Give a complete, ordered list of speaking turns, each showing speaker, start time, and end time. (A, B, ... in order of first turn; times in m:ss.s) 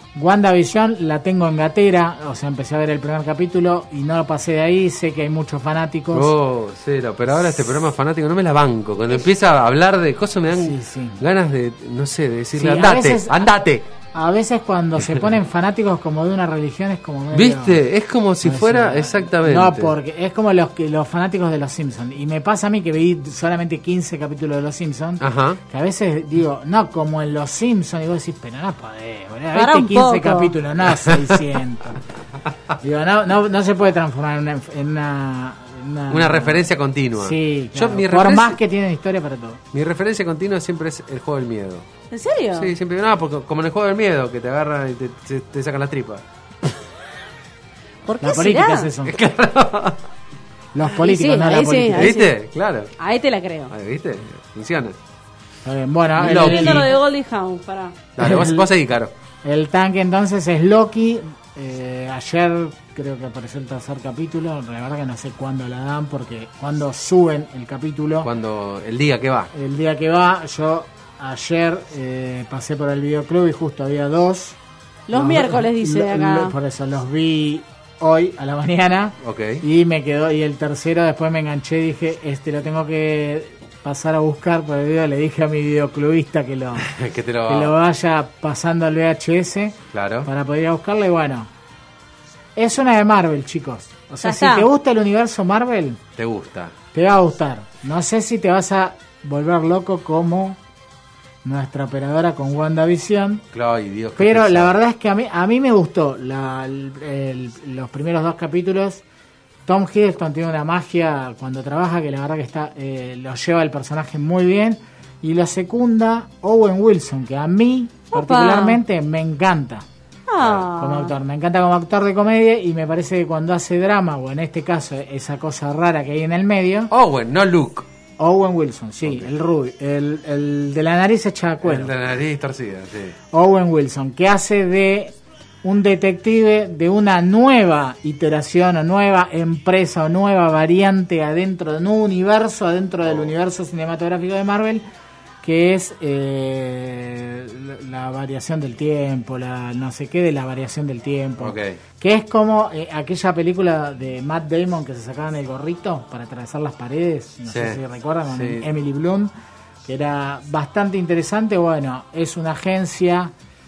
0:00.1-0:06.3 A
0:06.1-0:13.9 B
0:10.5-0:11.2 A
0:12.5-0:13.5 A
0:14.1-0:17.8 A
0:17.3-0:19.9 B
0:18.4-0:32.0 A
0:25.2-0:25.6 B
0:29.5-0:30.5 C
0:32.8-0:36.6 A
0:36.1-0:38.6 B
0:37.2-0:39.6 A
0:39.7-0:41.8 B
0:42.1-0:42.7 C
0:42.6-0:46.2 B
0:48.0-0:48.9 C
0:48.2-0:49.1 A
0:49.0-0:50.0 B
0:50.7-0:52.2 A
0:50.9-0:52.3 C
0:51.9-0:52.9 B
0:53.0-0:53.7 C
0:53.7-0:55.0 B
0:55.6-0:56.9 A
0:56.2-0:56.9 B
0:56.2-0:58.0 C
0:58.2-0:59.1 B
0:58.2-0:58.7 A
0:59.4-1:08.3 A
1:08.2-1:09.5 B
1:09.5-1:14.6 A
1:15.1-1:16.5 C
1:15.1-1:26.9 A
1:19.2-1:19.6 B
1:26.8-1:27.7 B
1:27.5-1:31.5 A
1:29.9-1:30.3 B
1:32.6-1:36.0 A
1:34.2-1:34.7 C
1:36.2-1:36.7 B
1:36.9-1:40.6 A
1:41.4-1:43.4 A
1:43.5-1:44.7 B
1:44.2-1:49.0 A
1:49.6-1:59.8 A
1:58.1-1:58.8 C
2:00.3-2:01.1 C
2:00.4-2:00.6 B
2:00.7-2:06.9 A
2:06.9-2:07.8 B
2:08.2-2:11.9 A
2:11.6-2:13.2 B
2:13.3-2:24.8 A
2:25.4-2:39.3 A
2:31.4-2:31.8 B
2:37.5-2:38.7 B
2:39.8-2:43.3 A